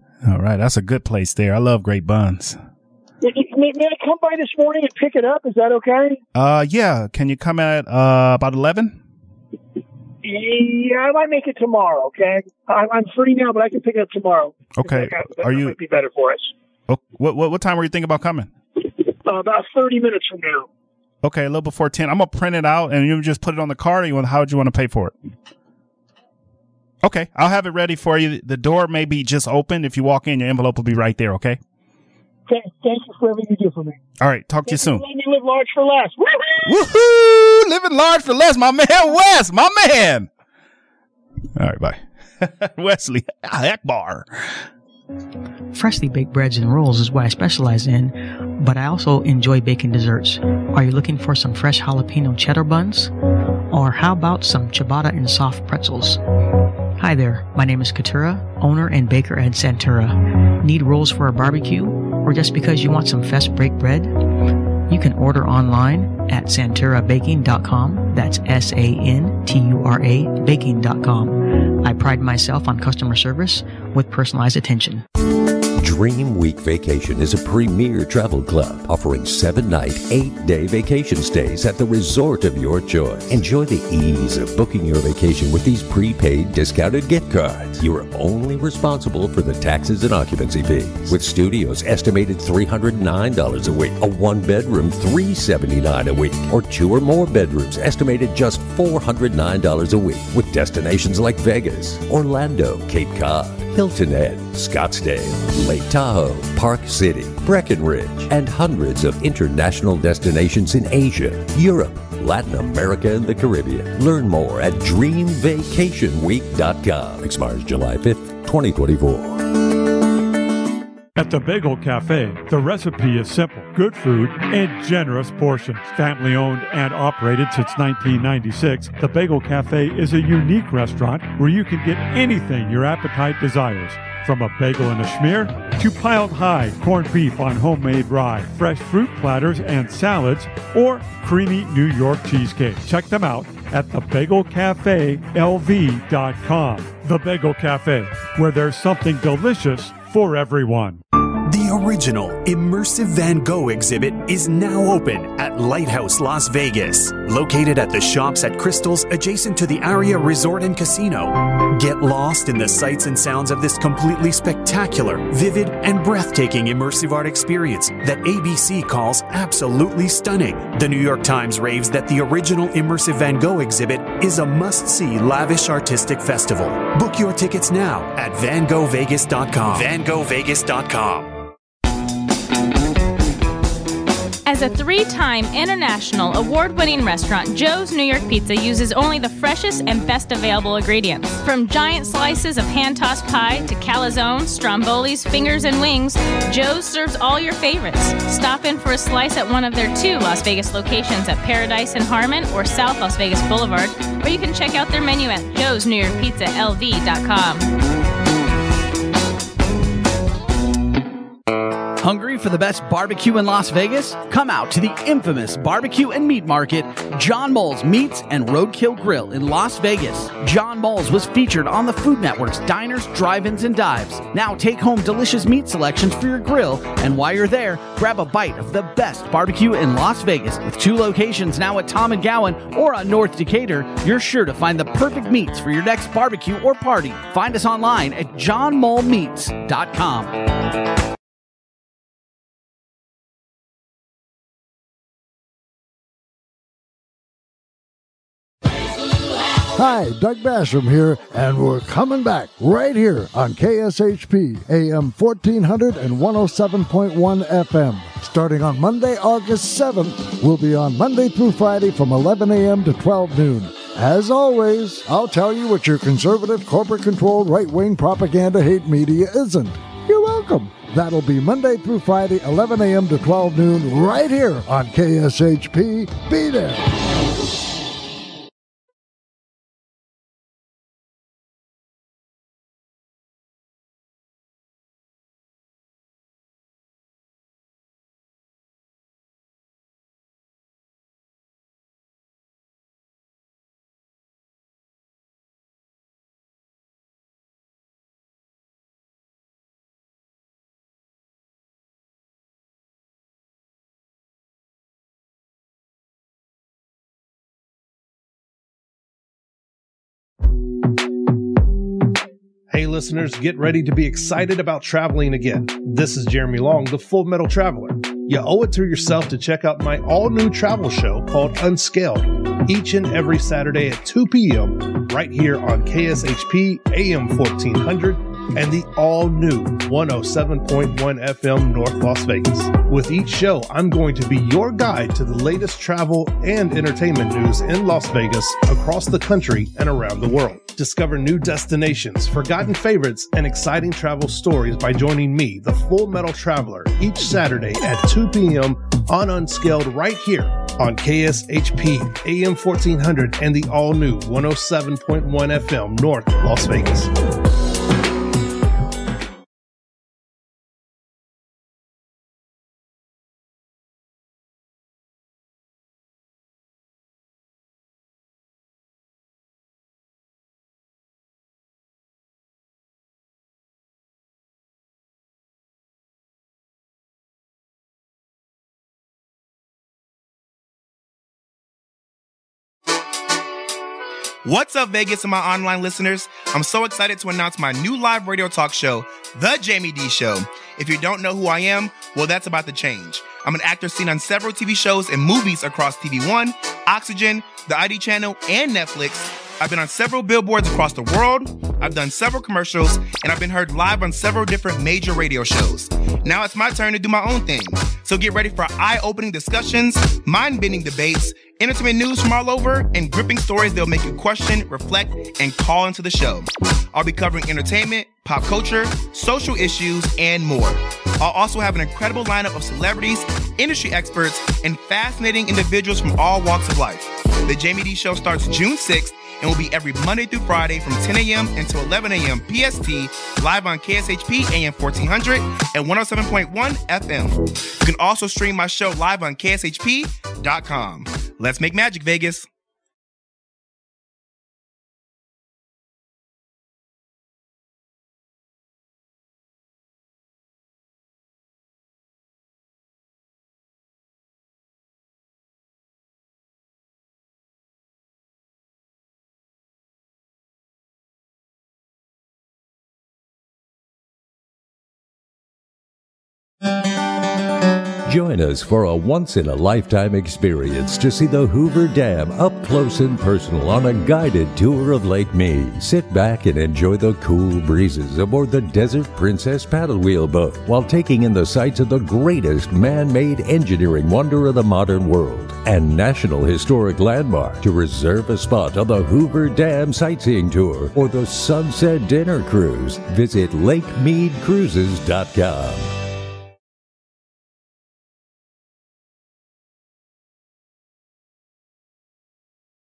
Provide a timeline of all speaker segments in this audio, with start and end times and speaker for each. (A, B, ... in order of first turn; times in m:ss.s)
0:00.2-0:02.6 A
0:03.2-0:06.2 B
0:06.4-0:09.0 A
0:10.2-0:16.5 B
0:14.8-0:15.8 A
0:16.9-0:18.5 A
0:19.2-0:20.7 B
0:21.2-0:25.1 A
0:27.0-0:31.6 A
0:32.5-0:34.0 B
0:34.2-0:35.0 A
0:34.7-0:36.8 B
0:36.6-0:40.3 A
0:41.6-0:44.3 A
0:45.7-0:53.1 C
0:53.7-0:56.2 C
0:57.0-1:04.2 C
1:04.9-1:15.0 C
1:15.8-1:59.5 D
2:01.2-2:31.0 E
2:31.4-3:01.3 F
3:04.5-3:27.7 G
3:32.0-4:00.4 H
4:09.7-4:36.9 I
5:12.7-5:57.1 J
6:24.4-7:22.5 K
7:48.1-8:15.9 D